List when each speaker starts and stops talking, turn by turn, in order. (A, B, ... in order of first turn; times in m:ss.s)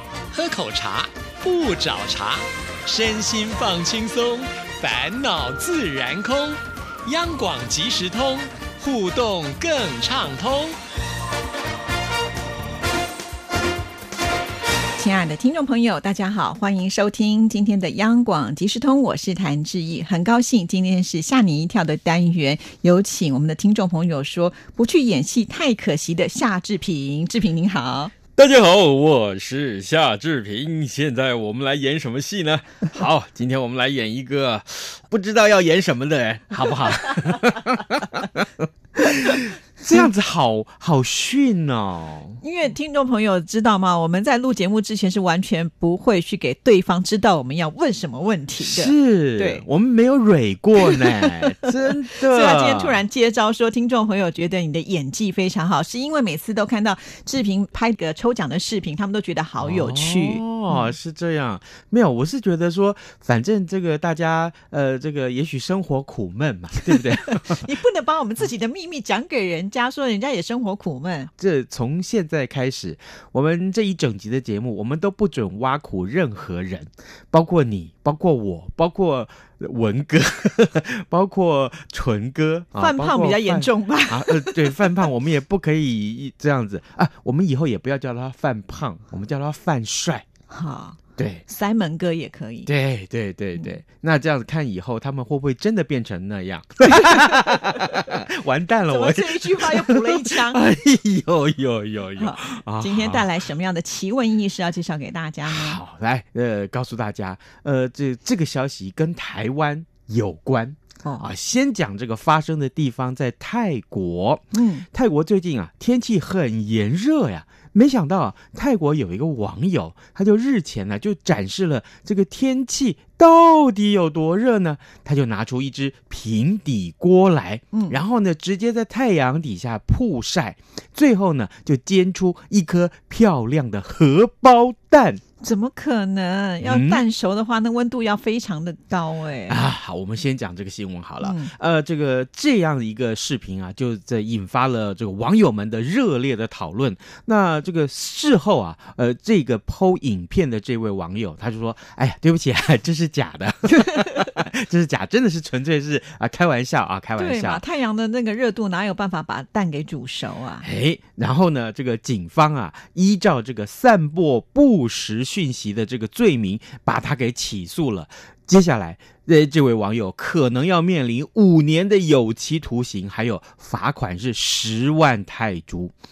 0:00.3-0:10.7 A
0:03.1-0:04.0 B
0:07.5-0:08.2 B
0:15.0-0:28.1 C
0:28.4-0:42.4 B
0:42.4-0:49.7 C
0:48.6-0:53.0 B
0:50.8-0:51.7 C
0:52.2-1:01.0 C
0:59.6-1:07.7 B
1:06.9-1:11.3 C
1:11.4-1:30.2 B
1:22.8-1:25.0 C
1:30.5-1:32.7 C
1:31.2-1:31.4 B
1:32.7-1:43.3 B
1:37.0-1:37.6 C
1:38.9-1:40.6 C
1:42.2-1:45.8 C
1:45.4-2:15.2 B
1:54.5-1:54.9 C
2:07.7-2:08.0 C
2:15.4-2:19.6 C
2:16.6-2:17.0 B
2:19.5-2:37.6 B
2:21.2-2:21.5 C
2:37.2-2:40.7 C
2:40.6-2:55.9 B